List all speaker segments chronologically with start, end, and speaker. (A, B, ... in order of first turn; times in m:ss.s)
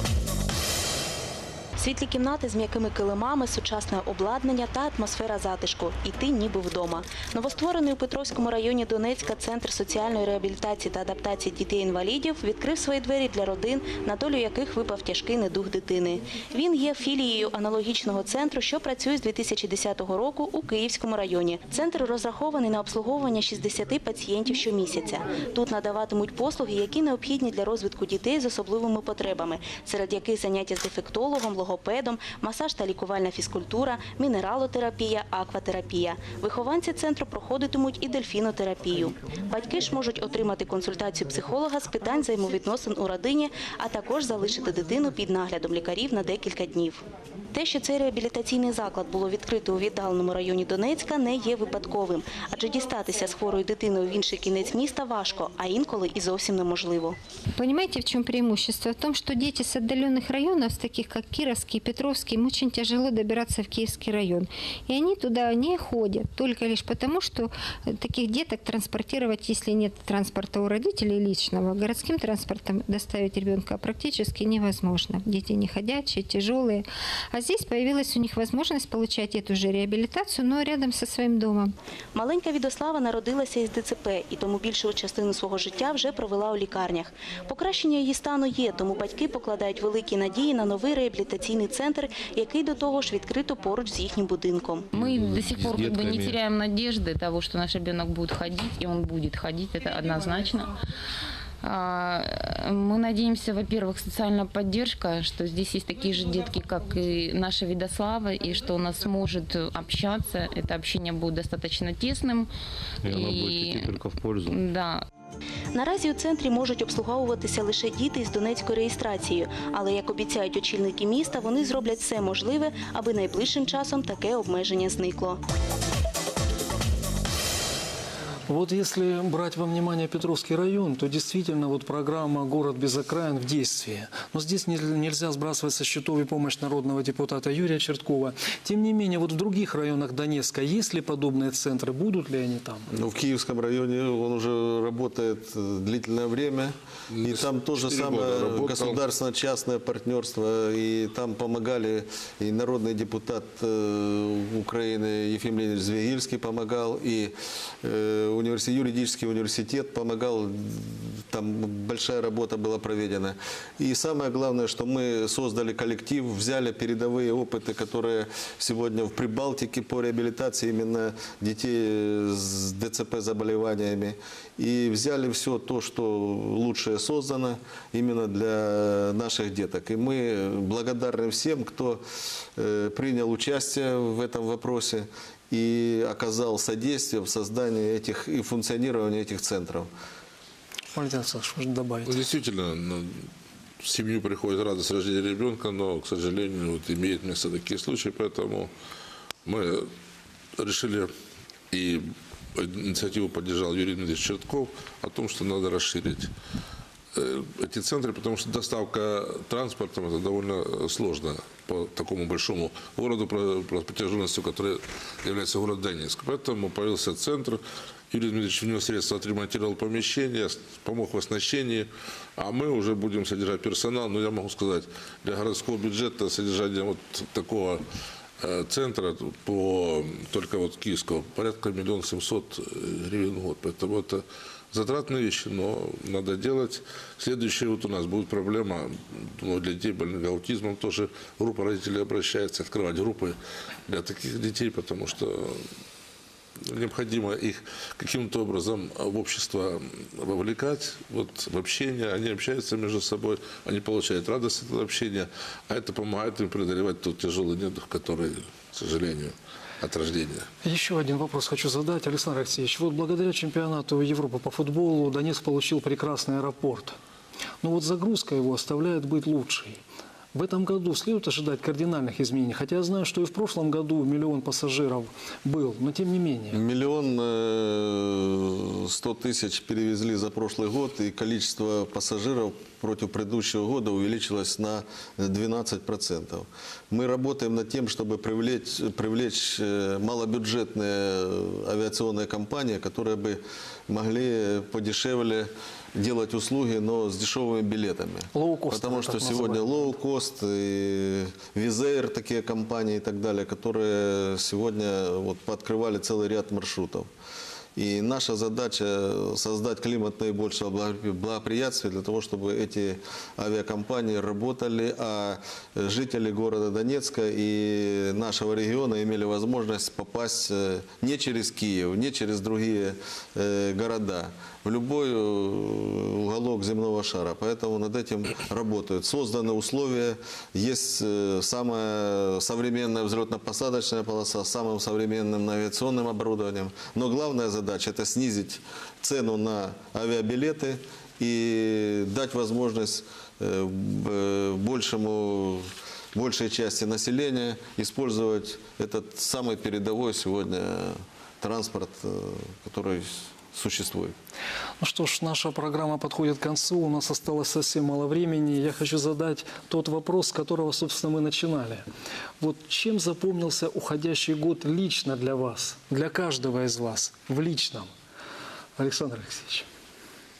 0:01.8-0:47.0 A
0:47.5-0:57.2 A
0:57.6-1:21.7 B
1:22.1-1:34.9 A
1:34.9-1:36.4 C
1:35.2-1:40.7 D
1:41.6-1:52.5 D
1:53.0-1:54.6 C
1:53.1-1:53.7 D
1:54.5-1:55.0 D
1:55.7-2:05.4 A
2:08.5-2:22.8 E
2:22.9-3:02.0 F
2:27.1-2:29.0 G
3:02.6-3:09.9 F
3:10.9-3:12.2 E
3:12.0-3:13.2 G
3:13.8-3:18.7 G
3:19.4-3:19.9 G
3:20.6-3:21.1 G
3:21.7-3:26.3 G
3:27.1-3:47.8 G
3:48.4-4:03.4 G
4:03.9-4:05.6 G
4:06.7-4:20.4 G
4:20.6-4:27.0 E
4:27.6-4:29.8 E
4:30.3-4:36.6 E
4:36.5-5:07.1 F
4:58.3-4:59.7 E
5:07.8-5:54.1 F
5:54.8-6:01.8 E
6:02.4-6:07.9 E
6:08.8-6:09.6 E